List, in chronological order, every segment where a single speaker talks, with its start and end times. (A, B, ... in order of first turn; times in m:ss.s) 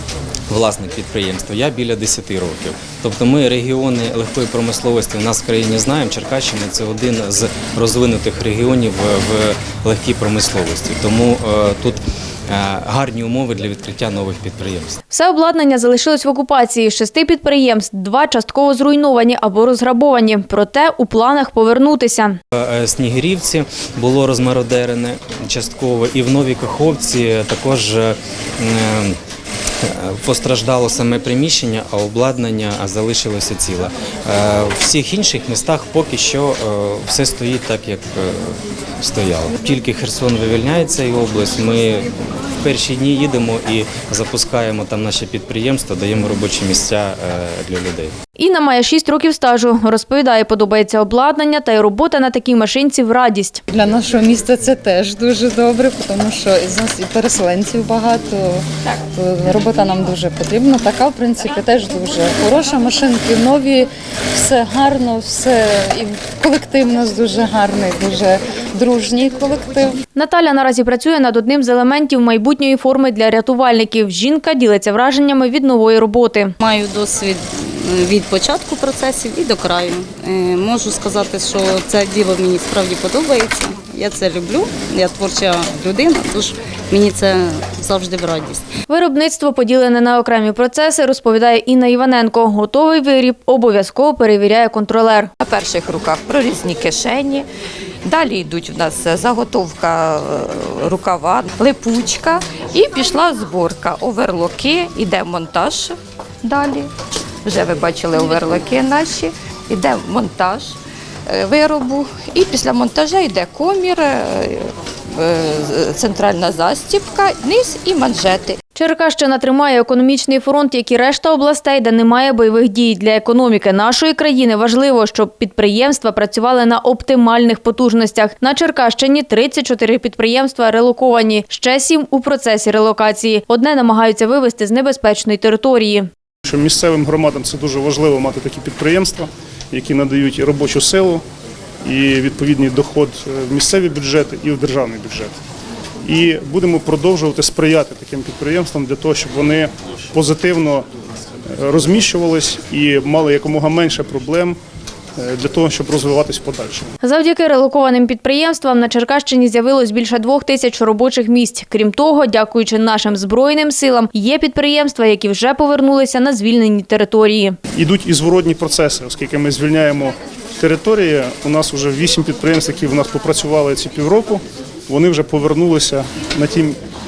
0:00.5-0:15.0 A
0:15.1-0:22.4 B
0:22.5-0:29.2 A
0:29.8-0:48.1 A
0:48.4-0:53.6 B
0:53.7-1:10.0 C
1:10.2-1:16.5 B
1:16.6-1:28.7 D
1:28.9-1:35.3 B
1:35.4-1:37.5 E
1:38.0-1:46.9 E
1:47.4-1:50.8 E
1:51.3-1:58.6 E
1:58.7-2:16.1 B
2:16.4-2:21.2 F
2:21.8-2:25.4 F
2:26.0-2:30.8 F
2:31.5-2:34.6 F
2:35.2-2:36.9 F
2:37.0-2:47.6 B
2:47.7-2:56.8 F